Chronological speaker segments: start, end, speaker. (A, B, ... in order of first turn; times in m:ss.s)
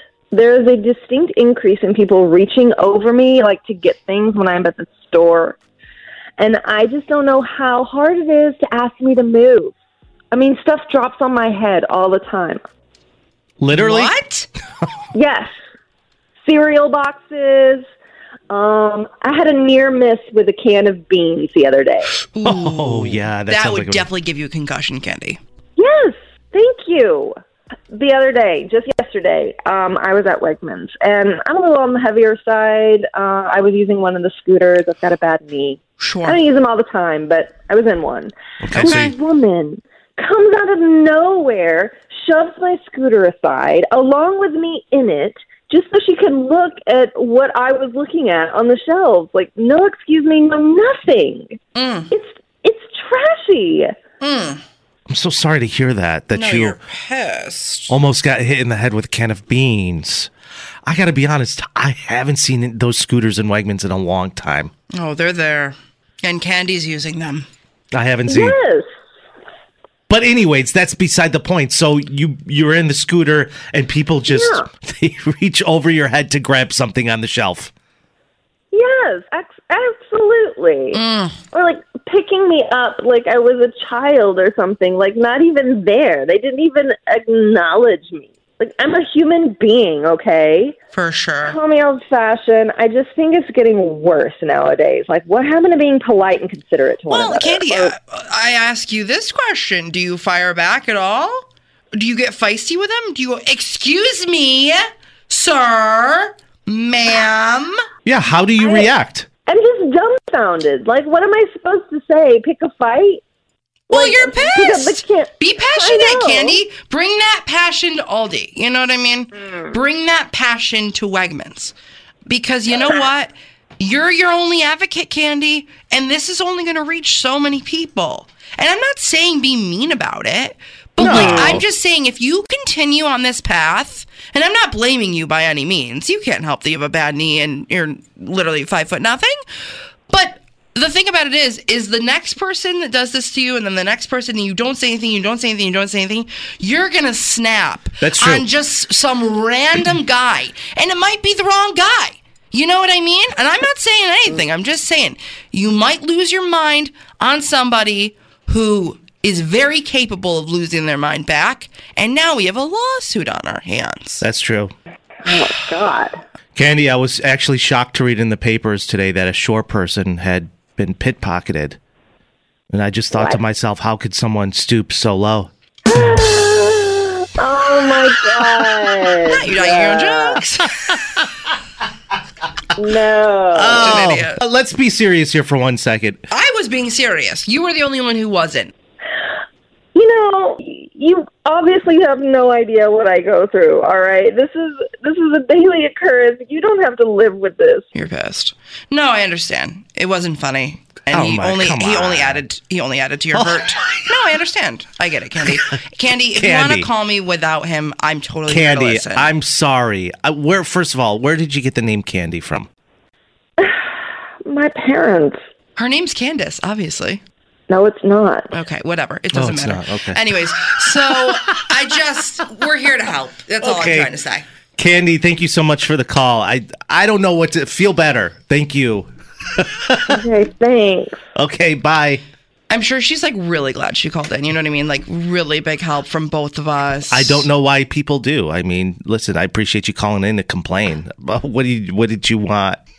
0:00.3-0:05.6 A
0:06.4-0:09.7 A
0:10.3-0:12.6 A
0:13.6-0:14.1 B
0:13.7-0:14.5 C
0:15.1-0:15.5 A
0:16.4-0:17.8 A
0:18.5-0:22.1 A
0:22.3-0:25.4 C
0:22.4-0:24.1 B
0:25.8-0:27.3 A
0:27.9-0:51.6 A
0:36.0-0:36.4 C
0:38.6-0:39.1 B
0:38.7-0:39.1 C
0:51.7-0:52.1 C
0:52.1-0:53.9 A
0:54.2-0:54.6 C
0:55.1-0:56.8 B
0:56.3-0:57.9 C
0:57.9-1:00.3 B
1:00.8-1:04.7 B
1:04.9-1:07.5 C
1:07.9-1:08.6 B
1:08.3-1:08.8 A
1:10.1-1:17.7 B
1:14.3-1:14.6 A
1:18.7-1:30.7 A
1:20.9-1:21.4 C
1:30.9-1:31.6 C
1:31.4-1:37.9 A
1:37.1-1:47.8 C
1:48.0-1:49.3 B
1:48.6-1:48.9 A
1:49.4-1:53.2 A
1:53.9-1:56.6 A
1:53.9-2:01.7 C
2:02.2-2:19.4 C
2:11.0-2:11.6 B
2:11.0-2:11.6 A
2:20.1-2:44.2 C
2:28.0-2:28.5 B
2:44.2-2:44.7 B
2:45.2-2:46.2 A
2:46.6-2:51.8 B
2:52.7-2:55.5 B
2:55.8-3:00.4 A
2:59.2-3:00.7 C
3:02.7-3:04.0 A
3:03.5-3:06.2 B
3:03.8-3:04.4 C
3:06.3-3:08.7 C
3:09.9-3:17.8 A
3:17.9-3:29.3 C
3:21.1-3:22.4 B
3:23.3-3:24.0 B
3:26.4-3:26.9 B
3:28.5-3:32.7 B
3:34.4-3:35.4 A
3:35.8-3:37.2 C
3:37.7-3:38.5 A
3:38.5-3:44.4 C
3:39.3-3:40.2 B
3:43.6-3:44.1 B
3:44.8-3:50.2 B
3:50.1-3:51.2 A
3:51.3-3:52.2 B
3:52.7-3:57.5 C
3:57.1-4:02.8 B